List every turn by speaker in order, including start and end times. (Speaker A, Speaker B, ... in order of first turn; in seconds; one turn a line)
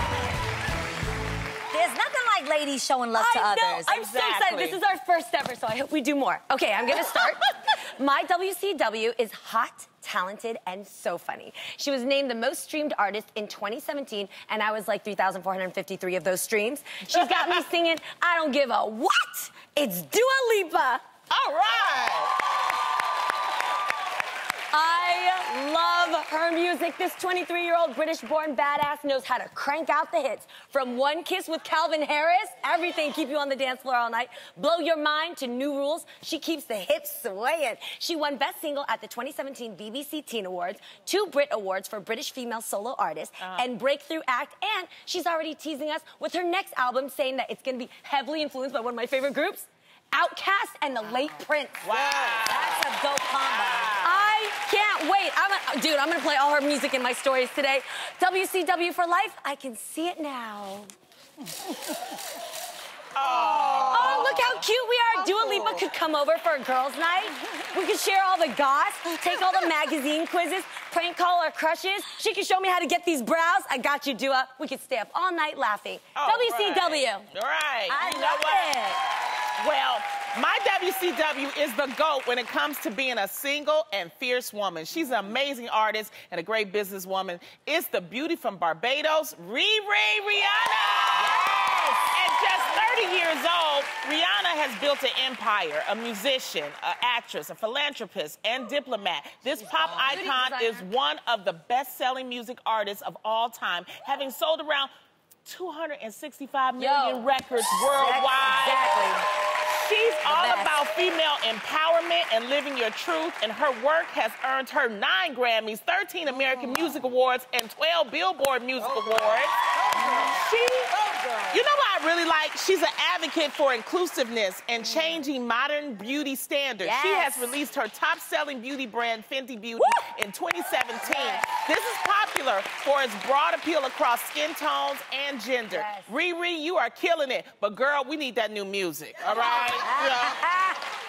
Speaker A: 1.7-4.0
Speaker B: 3.1-21.0
Speaker C: 3.9-4.8
Speaker C: 17.1-17.6
Speaker C: 21.3-22.3
Speaker B: 24.7-52.0
Speaker C: 43.4-43.7
Speaker C: 51.8-52.9
Speaker A: 52.4-54.0
Speaker C: 53.5-54.3
Speaker B: 54.0-60.9
Speaker C: 63.1-64.7
Speaker B: 63.9-77.2
Speaker C: 65.2-65.8
Speaker C: 76.1-78.8
Speaker A: 77.9-79.0
Speaker C: 79.6-104.9
Speaker A: 91.3-92.0
Speaker B: 100.0-100.9
Speaker C: 105.4-108.9
Speaker B: 106.8-107.3
Speaker B: 107.8-109.2
Speaker C: 109.6-119.5
Speaker B: 110.3-110.7
Speaker A: 120.0-120.3
Speaker C: 120.1-120.9
Speaker C: 121.5-140.4
Speaker A: 126.8-127.5
Speaker B: 131.1-131.3
Speaker B: 135.7-136.1
Speaker B: 139.6-140.0